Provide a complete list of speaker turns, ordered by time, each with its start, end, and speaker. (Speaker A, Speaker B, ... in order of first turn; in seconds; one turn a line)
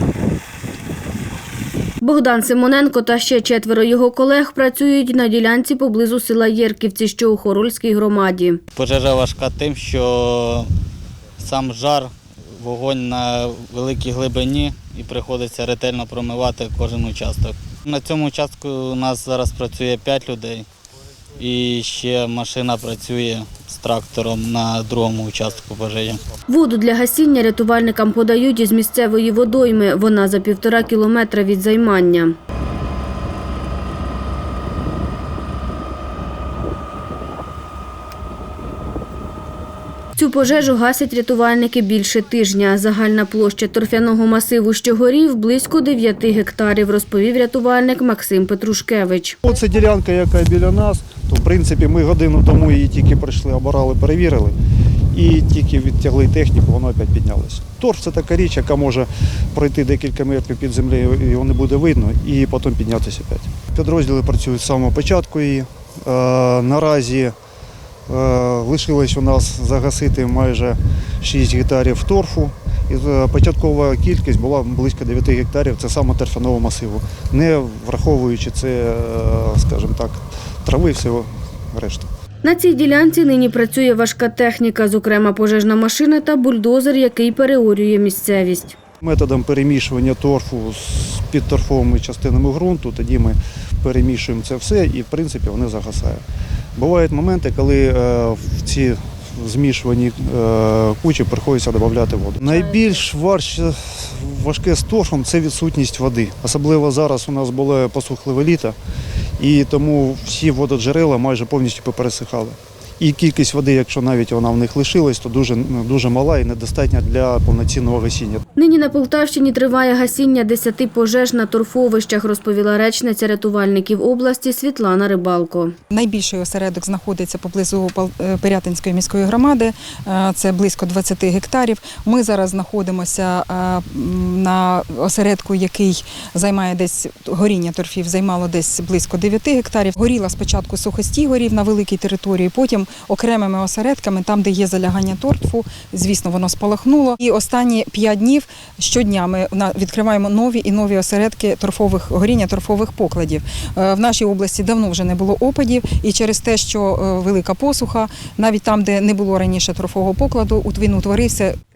Speaker A: 2.0-8.6
Speaker B: 8.7-10.7
Speaker B: 11.4-20.7
Speaker B: 21.4-26.2
Speaker A: 26.5-32.4
Speaker A: 40.2-49.4
Speaker C: 49.5-54.5
Speaker C: 55.1-67.3
Speaker C: 68.1-82.1
Speaker A: 82.4-88.8
Speaker C: 89.0-96.2
Speaker C: 96.8-108.8
Speaker C: 109.4-118.4
Speaker A: 118.5-125.7
Speaker D: 125.9-161.6